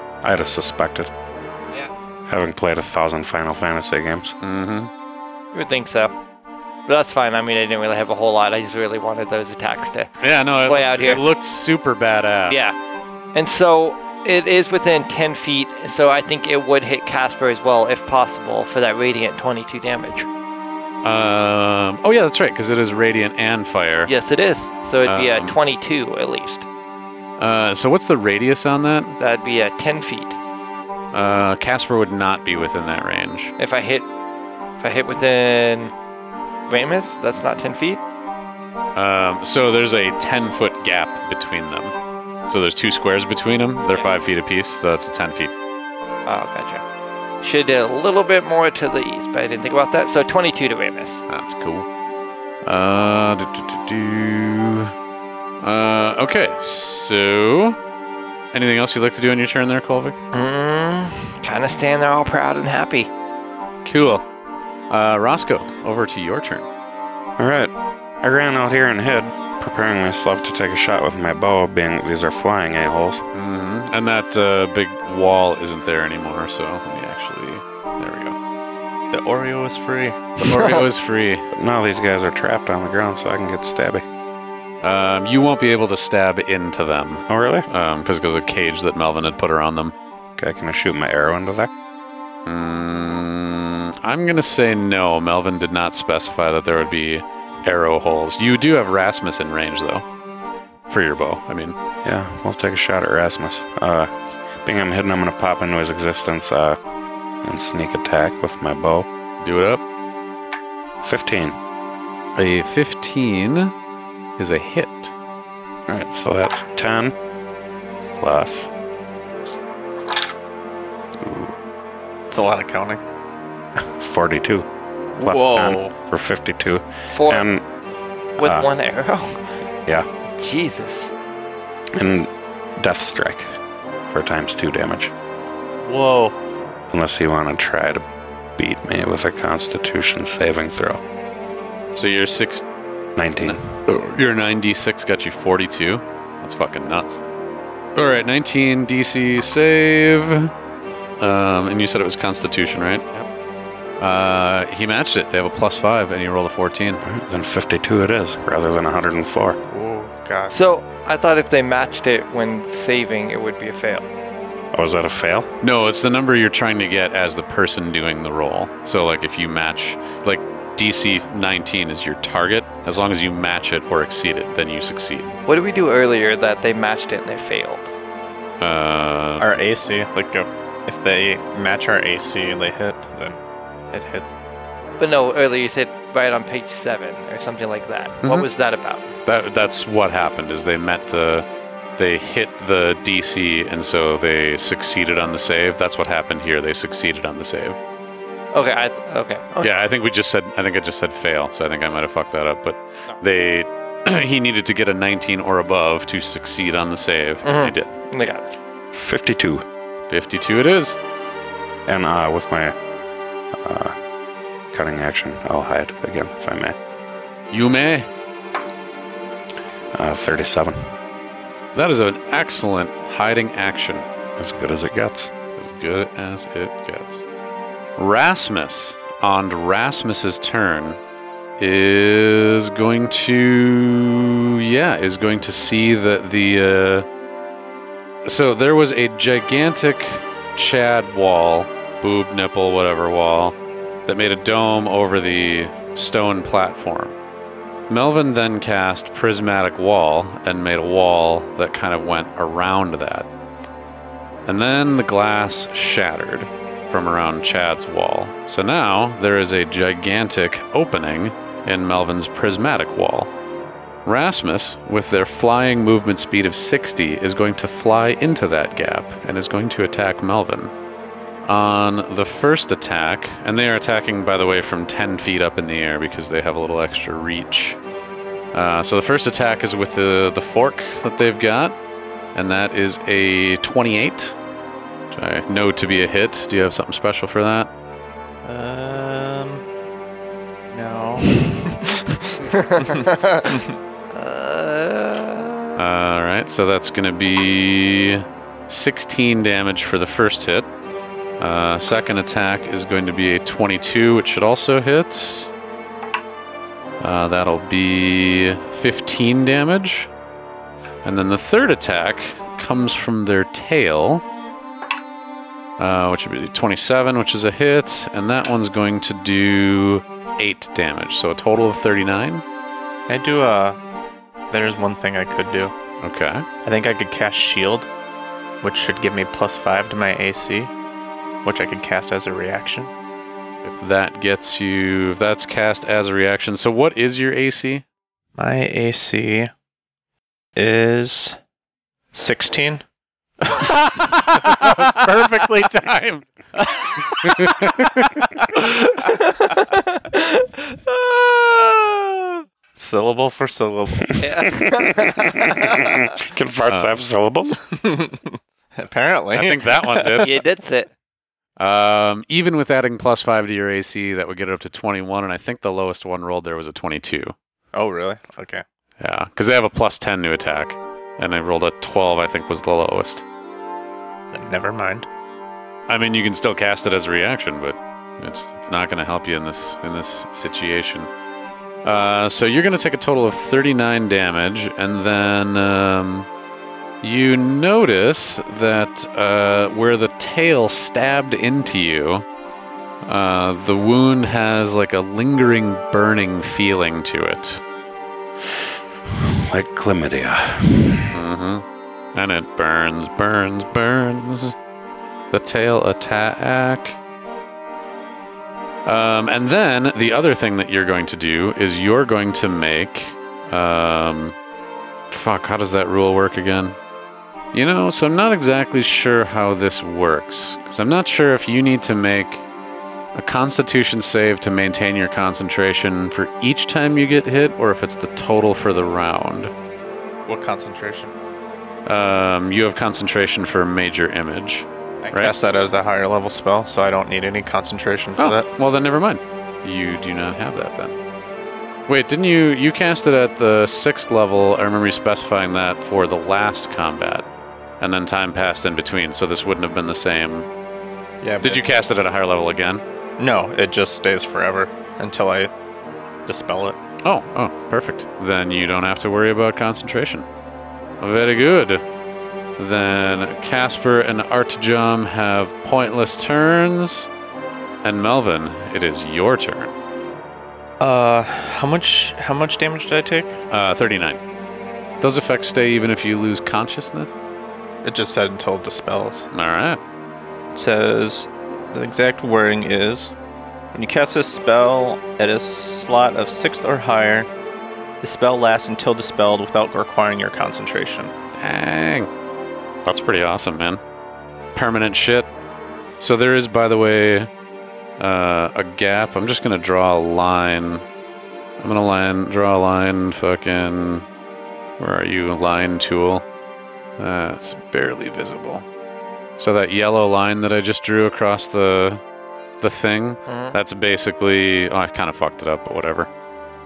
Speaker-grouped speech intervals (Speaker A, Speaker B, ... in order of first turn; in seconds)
Speaker A: 0.2-1.1, 2.3-4.4, 67.4-73.2, 81.5-84.0, 87.3-87.7, 90.4-91.7, 102.0-106.8, 107.4-109.1, 111.0-111.6, 115.9-117.1, 118.2-118.7, 121.2-121.5, 123.8-124.7, 125.2-127.6, 128.4-128.7, 131.9-133.5, 134.1-135.1, 136.9-138.0, 138.6-141.0, 143.2-143.6, 157.0-159.6, 164.7-165.5, 208.9-209.6, 211.8-212.7, 213.6-213.9, 214.7-216.8, 219.9-220.9, 224.4-225.3, 354.3-357.6, 399.1-401.1
Speaker B: 4.4-4.9, 10.2-12.6, 21.0-24.1, 25.0-25.6, 27.4-29.2, 31.1-33.5, 38.9-41.9, 42.5-45.5, 51.3-51.9, 52.6-54.9, 55.6-57.8, 58.5-60.2, 63.8-64.2, 64.9-66.7, 73.3-78.3, 80.4-81.5, 84.8-89.9, 92.5-100.0, 100.9-101.8, 109.4-109.8, 112.3-113.7, 114.4-115.1, 141.9-142.6, 143.4-147.2, 147.9-150.5, 151.2-153.1, 154.0-157.0, 165.6-175.4, 178.6-179.6, 189.2-191.4, 192.0-197.8, 199.6-207.9, 210.1-211.0, 217.5-218.1, 221.7-224.1, 225.6-227.2, 228.0-231.0, 231.6-237.1, 238.2-243.5, 244.1-247.2, 247.9-253.3, 254.4-263.3, 264.0-270.7, 271.4-277.8, 278.5-281.8, 282.3-284.4, 285.1-287.7, 295.8-300.7, 301.4-305.5, 307.0-310.1, 311.0-314.2, 315.8-322.4, 326.0-326.5, 333.6-337.9, 343.5-346.2, 347.0-348.3, 359.3-360.4, 361.6-367.3, 369.0-373.2, 375.9-381.1, 381.8-386.3, 387.0-392.2, 393.0-397.6, 401.1-404.6, 405.3-407.0, 408.9-414.4, 415.1-416.8, 417.5-422.4, 423.1-429.5, 431.9-435.3, 438.2-440.9, 441.9-447.2, 447.8-450.5, 451.4-452.8, 457.0-460.2, 461.0-461.8, 462.6-467.1, 467.8-469.7, 473.5-474.2, 475.0-477.2, 479.3-479.8, 491.3-492.1, 492.8-493.8, 494.5-495.3, 496.0-497.3, 498.0-500.8, 501.6-504.1, 504.8-506.2, 507.0-508.6, 509.4-512.0, 512.6-516.1
Speaker C: 5.5-6.1, 6.9-10.1, 10.6-11.2, 12.5-12.8, 13.3-20.3, 24.1-26.6, 29.2-30.4, 33.6-34.1, 34.8-35.9, 36.7-38.0, 46.2-46.8, 47.4-51.2, 60.3-63.1, 127.1-127.5, 128.4-129.5, 130.4-131.1, 160.5-164.1, 175.4-177.9, 185.0-189.1, 198.5-199.7, 207.4-208.5, 292.4-293.6, 294.1-295.8, 348.6-352.4, 354.2-356.0, 360.2-360.9, 513.3-513.5
Speaker D: 79.1-80.7, 122.3-123.0, 125.2-125.9, 135.8-136.3, 159.7-160.6, 179.4-183.4, 183.9-184.3, 288.4-289.6, 290.7-291.4, 323.1-323.8, 324.5-325.7, 326.6-327.9, 328.6-330.7, 331.4-332.9, 338.4-339.5, 340.6-341.4, 342.1-342.8, 343.5-344.9, 346.6-347.6, 352.7-354.2, 357.7-360.3, 367.7-368.6, 374.3-375.1, 430.2-431.1, 435.0-438.5, 451.2-451.6, 453.2-455.5, 456.2-456.8, 470.8-473.4, 477.8-479.3, 480.5-483.1, 483.7-487.3, 488.0-491.1